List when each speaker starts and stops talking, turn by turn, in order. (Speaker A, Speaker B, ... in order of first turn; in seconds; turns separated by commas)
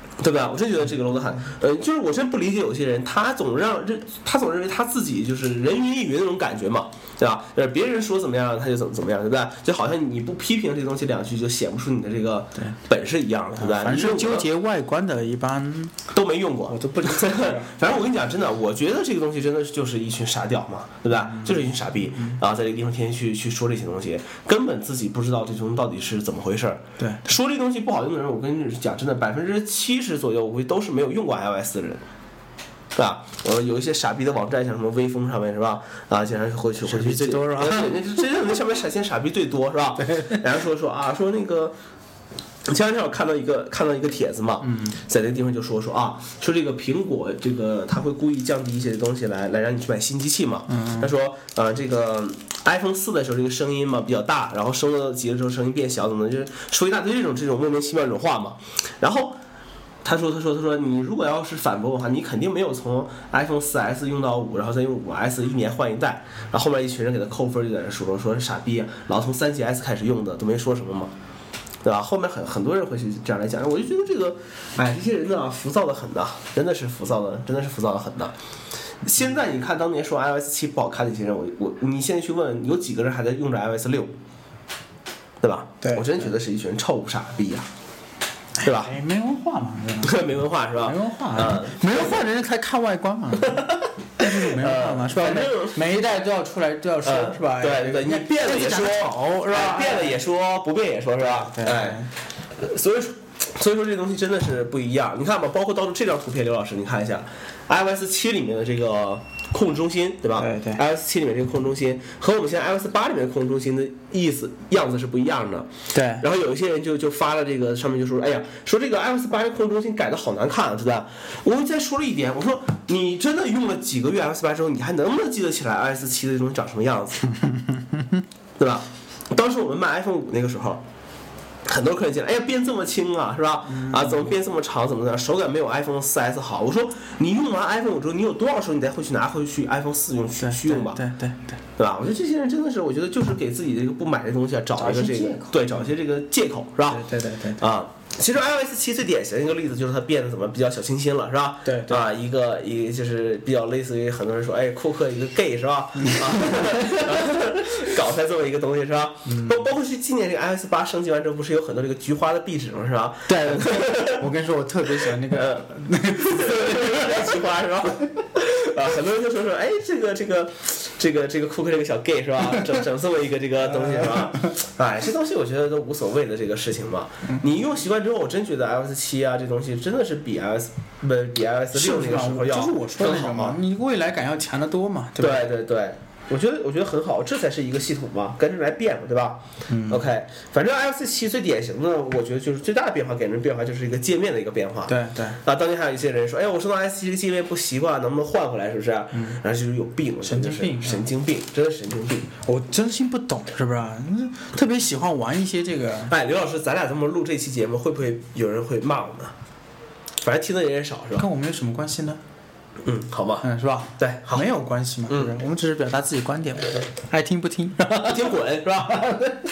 Speaker A: 0.2-14.5, Speaker B: 13.6-16.0, Speaker A: 16.1-32.0, Speaker B: 16.7-17.8, Speaker B: 21.3-22.4, Speaker B: 27.0-27.3, Speaker A: 33.0-41.8, Speaker B: 36.8-38.2, Speaker A: 42.7-59.4, Speaker B: 44.6-45.0, Speaker B: 50.7-51.1, Speaker A: 60.0-71.1, Speaker A: 71.8-78.3, Speaker A: 79.0-84.1, Speaker A: 85.4-87.7, Speaker B: 85.8-86.2, Speaker B: 88.6-100.2, Speaker A: 88.6-88.9, Speaker A: 90.0-92.2, Speaker A: 93.4-95.8, Speaker A: 97.0-127.3, Speaker B: 101.2-102.1, Speaker B: 110.4-110.8, Speaker B: 115.9-116.2, Speaker B: 127.5-128.2, Speaker A: 128.6-130.8, Speaker A: 131.7-141.0, Speaker B: 133.7-134.3, Speaker B: 140.4-141.6, Speaker A: 141.8-147.0, Speaker B: 144.8-145.9, Speaker B: 146.9-147.6, Speaker A: 147.6-164.3, Speaker B: 151.6-152.1, Speaker B: 156.1-157.3, Speaker B: 159.3-159.7, Speaker B: 163.3-167.4, Speaker A: 165.1-183.6, Speaker B: 173.7-174.5, Speaker B: 181.7-185.5, Speaker A: 185.2-202.3, Speaker B: 189.7-190.1, Speaker B: 194.9-195.4, Speaker B: 199.1-199.4, Speaker B: 200.2-201.1, Speaker B: 202.4-206.1, Speaker A: 206.1-209.3, Speaker A: 210.2-211.3, Speaker B: 211.2-212.2, Speaker A: 212.8-214.5, Speaker B: 213.4-218.3, Speaker A: 215.1-215.3, Speaker A: 217.9-219.1, Speaker B: 218.9-219.3